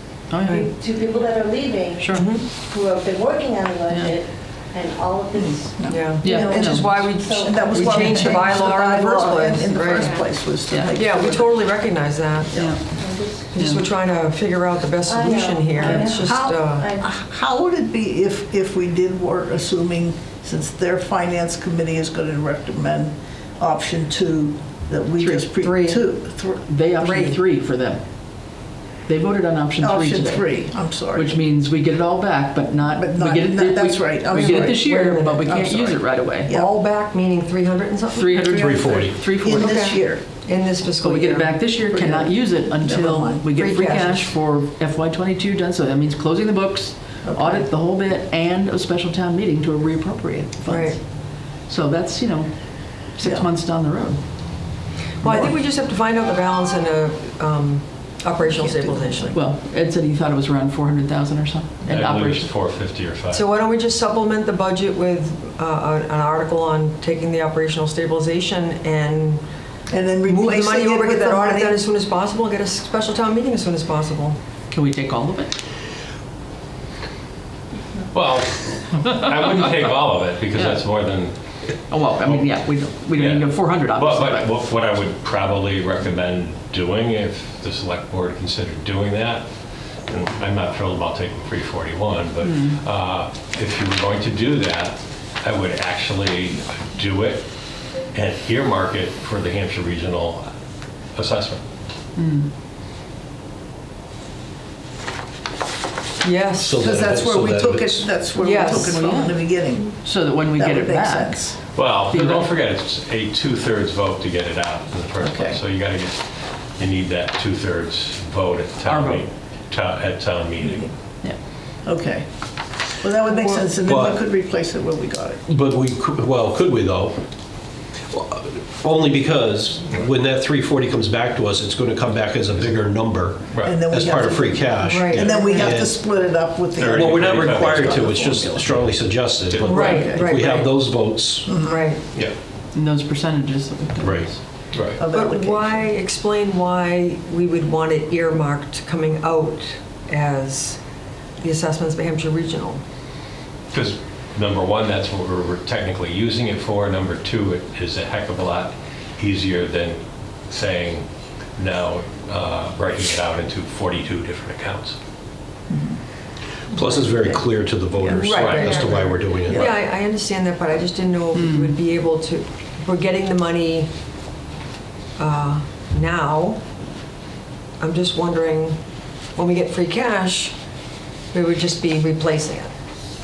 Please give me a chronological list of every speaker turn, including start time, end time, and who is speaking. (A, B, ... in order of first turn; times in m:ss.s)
0:00.3-0:00.7 A
0:00.4-0:08.6 B
0:02.0-0:02.3 A
0:02.1-0:02.5 C
0:03.9-0:04.2 A
0:05.3-0:06.9 D
0:05.9-0:10.2 C
0:06.2-0:07.1 A
0:07.4-0:11.6 D
0:10.0-0:10.3 B
0:10.9-0:12.5 C
0:12.5-0:12.8 A
0:12.8-0:13.7 B
0:13.5-0:16.9 C
0:13.5-0:13.8 A
0:15.0-0:17.1 B
0:15.8-0:16.0 A
0:16.2-0:26.6 D
0:25.2-0:25.4 A
0:25.4-0:26.0 C
0:26.6-0:28.0 A
0:27.0-0:27.4 C
0:29.1-0:36.5 A
0:29.8-0:31.4 D
0:32.9-0:36.7 D
0:34.4-0:35.6 C
0:36.5-0:41.6 C
0:38.1-0:39.8 A
0:38.6-0:39.2 E
0:39.3-0:40.3 D
0:41.0-0:51.0 A
0:41.8-0:43.7 D
0:43.5-0:44.3 C
0:47.2-0:47.6 D
0:50.6-0:51.0 C
0:51.6-0:54.2 A
0:53.2-0:53.5 D
0:55.2-0:59.4 C
0:58.5-0:59.2 D
0:59.3-1:02.5 A
1:01.9-1:03.4 F
1:03.3-1:09.4 C
1:09.9-1:11.8 D
1:10.2-1:14.4 C
1:14.7-1:15.5 A
1:18.1-1:21.3 F
1:20.5-1:20.8 A
1:21.9-1:24.5 A
1:22.2-1:22.5 F
1:23.1-1:29.4 F
1:30.1-1:37.5 F
1:32.4-1:32.8 A
1:38.1-1:40.4 F
1:41.2-1:41.6 F
1:42.2-1:42.5 A
1:46.2-1:46.8 C
1:46.6-1:48.1 E
1:46.7-1:51.6 D
1:48.4-1:49.0 C
1:48.7-1:49.4 A
1:50.0-1:51.4 A
1:51.7-1:56.2 F
1:52.1-1:52.4 A
1:55.2-1:55.6 D
1:56.8-2:00.9 F
1:58.8-1:59.2 A
2:01.8-2:02.2 D
2:03.0-2:05.4 D
2:03.8-2:04.2 E
2:05.5-2:07.2 E
2:08.1-2:16.0 E
2:13.6-2:18.8 D
2:14.8-2:15.7 C
2:16.8-2:18.1 F
2:16.8-2:21.5 E
2:19.5-2:19.9 F
2:19.6-2:20.8 C
2:19.7-2:20.3 D
2:21.4-2:21.9 D
2:21.6-2:22.0 C
2:22.7-2:24.4 A
2:24.0-2:24.3 E
2:24.7-2:25.0 F
2:25.0-2:25.9 D
2:25.1-2:30.8 C
2:31.4-2:32.8 C
2:33.7-2:45.0 F
2:45.7-2:46.0 D
2:46.7-2:49.8 E
2:47.0-2:47.4 D
2:48.0-2:48.4 D
2:48.2-2:53.9 C
2:48.4-2:48.8 F
2:49.4-2:49.7 D
2:51.3-2:51.8 A
2:55.2-2:56.6 C
2:57.8-2:58.8 C
2:59.4-3:00.5 C
3:01.3-3:02.7 C